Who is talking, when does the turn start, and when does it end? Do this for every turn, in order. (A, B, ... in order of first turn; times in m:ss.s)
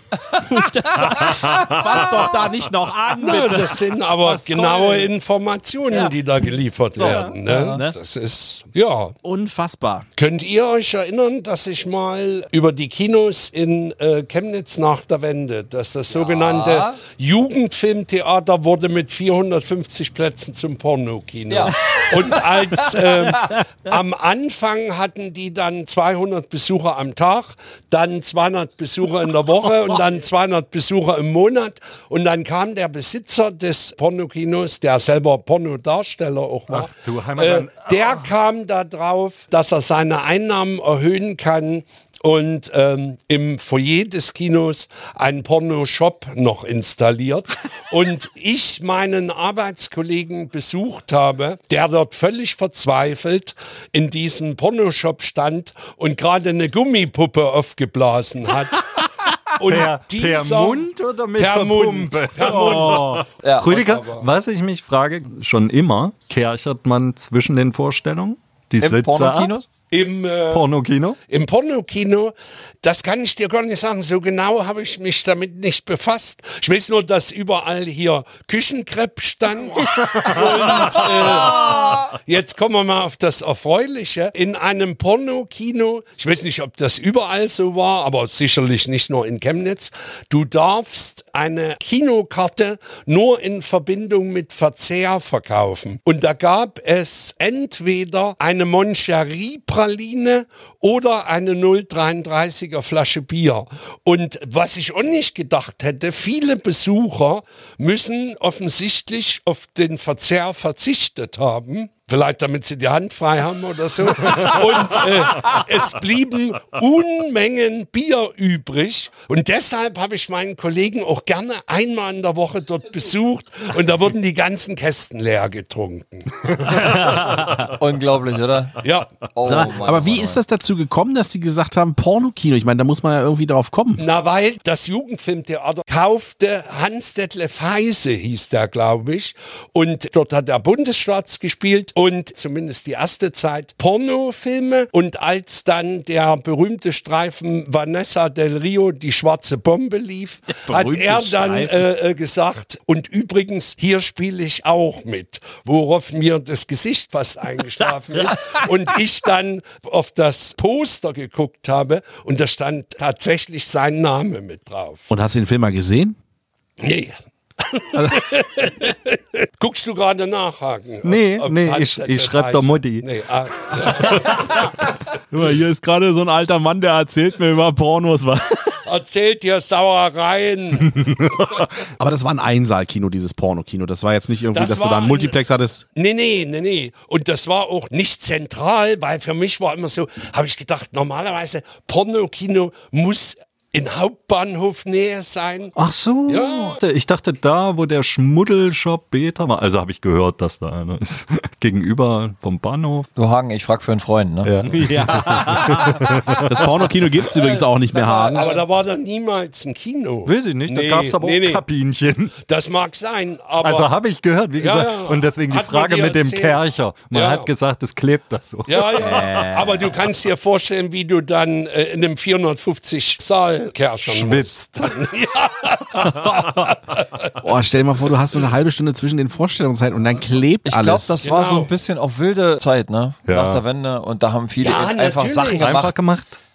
0:00.3-0:05.1 A
0:03.2-0:09.1 B
0:07.0-0:08.0 A
0:07.0-0:07.3 C
0:07.5-0:07.8 D
0:09.2-0:10.0 A
0:10.2-1:00.9 B
0:16.1-0:17.0 D
0:21.5-0:23.4 D
0:36.7-0:38.3 C
0:59.7-1:09.5 C
1:01.4-1:04.3 B
1:02.4-1:03.2 A
1:03.4-1:03.7 D
1:08.8-1:09.7 D
1:09.9-1:10.7 B
1:10.5-1:11.2 C
1:11.3-2:07.0 B
1:19.9-1:21.0 C
1:21.3-1:22.1 D
2:06.7-2:07.6 A
2:06.9-2:10.4 D
2:08.8-2:09.3 B
2:09.4-2:14.0 A
2:14.0-2:45.1 B
2:30.5-2:31.9 A
2:45.1-2:46.2 A
2:46.8-2:54.6 B
2:47.9-2:48.2 A
2:51.0-2:53.0 C
2:53.9-2:54.8 A
2:55.3-2:58.8 A
2:58.8-3:01.6 B
3:01.0-3:01.5 C
3:02.0-3:05.8 A
3:04.5-3:05.4 B
3:06.0-3:15.7 B
3:15.8-3:23.1 C
3:16.3-3:16.8 B
3:23.2-3:25.4 D
3:24.4-3:26.7 C
3:24.7-3:28.4 A
3:27.4-3:28.6 D
3:28.3-3:31.6 B
3:30.3-3:32.3 C
3:32.5-3:33.9 B
3:33.6-3:39.5 C
3:34.6-3:37.5 B
3:38.7-3:47.3 B
3:39.0-3:39.9 A
3:44.0-3:45.0 C
3:46.0-3:46.4 A
3:47.4-3:51.2 A
3:50.7-3:56.0 D
3:51.2-3:51.7 B
3:53.3-3:53.6 C
3:54.6-3:55.9 B
3:55.6-3:56.4 C